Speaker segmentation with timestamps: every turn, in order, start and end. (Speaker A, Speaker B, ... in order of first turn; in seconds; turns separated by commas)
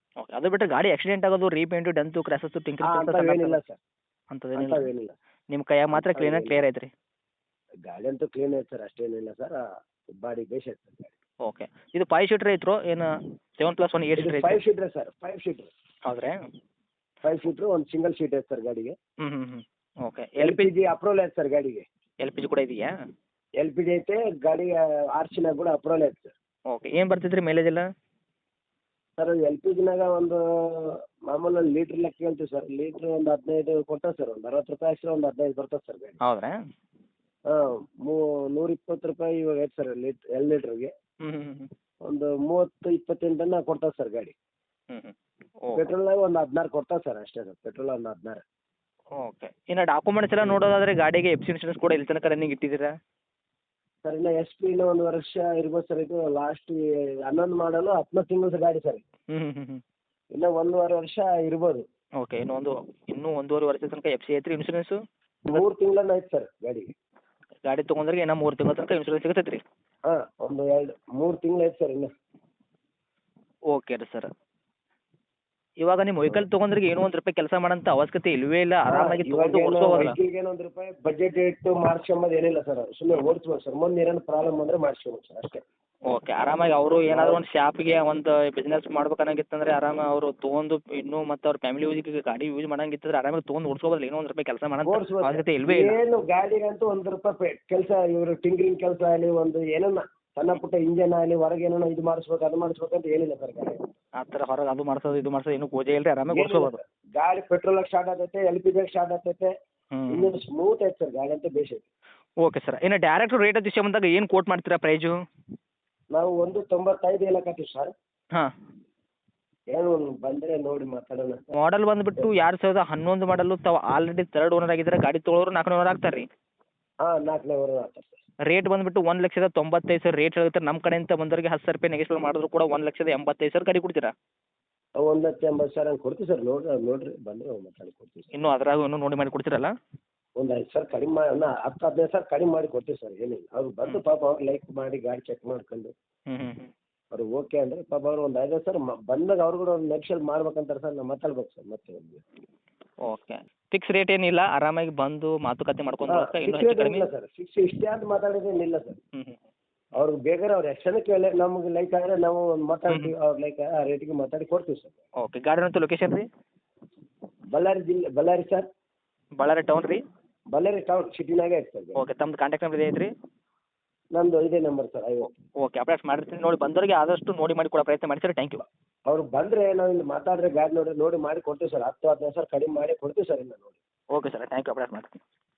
Speaker A: 0.2-3.6, Speaker B: 2.8-3.8, Speaker A: 4.3-4.9, Speaker B: 4.6-5.2, Speaker A: 5.5-6.9, Speaker B: 6.0-6.6, Speaker B: 7.8-9.6, Speaker B: 10.2-11.1, Speaker A: 11.4-13.1, Speaker A: 13.6-14.6, Speaker B: 14.2-15.7, Speaker A: 16.1-16.4, Speaker B: 17.2-19.0, Speaker A: 19.2-20.7, Speaker B: 20.4-21.9, Speaker A: 22.2-22.9, Speaker B: 23.6-26.3, Speaker A: 26.7-27.9, Speaker B: 29.2-36.2, Speaker A: 36.2-36.6, Speaker B: 37.5-40.9, Speaker A: 41.2-41.7, Speaker B: 42.1-44.3, Speaker A: 44.9-45.9, Speaker B: 45.8-48.4, Speaker A: 49.2-52.9, Speaker B: 54.0-59.0, Speaker A: 59.3-59.8, Speaker B: 60.3-61.9, Speaker A: 62.2-65.0, Speaker B: 65.5-66.9, Speaker A: 67.7-69.6, Speaker B: 70.1-72.1, Speaker A: 73.7-74.3, Speaker A: 75.8-80.2, Speaker B: 78.9-85.6, Speaker A: 86.1-96.0, Speaker B: 87.1-87.4, Speaker B: 94.8-103.8, Speaker A: 104.2-106.8, Speaker B: 106.3-109.5, Speaker A: 109.9-110.3, Speaker B: 110.1-111.9, Speaker A: 112.4-115.1, Speaker B: 116.1-117.9, Speaker B: 119.7-121.4, Speaker A: 121.6-126.3, Speaker B: 127.0-128.2, Speaker A: 128.5-134.1, Speaker B: 135.0-138.3, Speaker A: 138.3-139.7, Speaker B: 140.4-145.9, Speaker A: 146.3-146.7, Speaker B: 147.1-152.2, Speaker A: 153.1-157.1, Speaker B: 156.1-159.0, Speaker B: 160.0-165.0, Speaker A: 165.2-166.3, Speaker B: 167.5-168.7, Speaker A: 169.4-170.0, Speaker B: 170.5-172.0, Speaker A: 172.0-173.1, Speaker B: 174.2-175.4, Speaker A: 175.6-178.7, Speaker B: 179.1-183.8, Speaker A: 184.1-185.2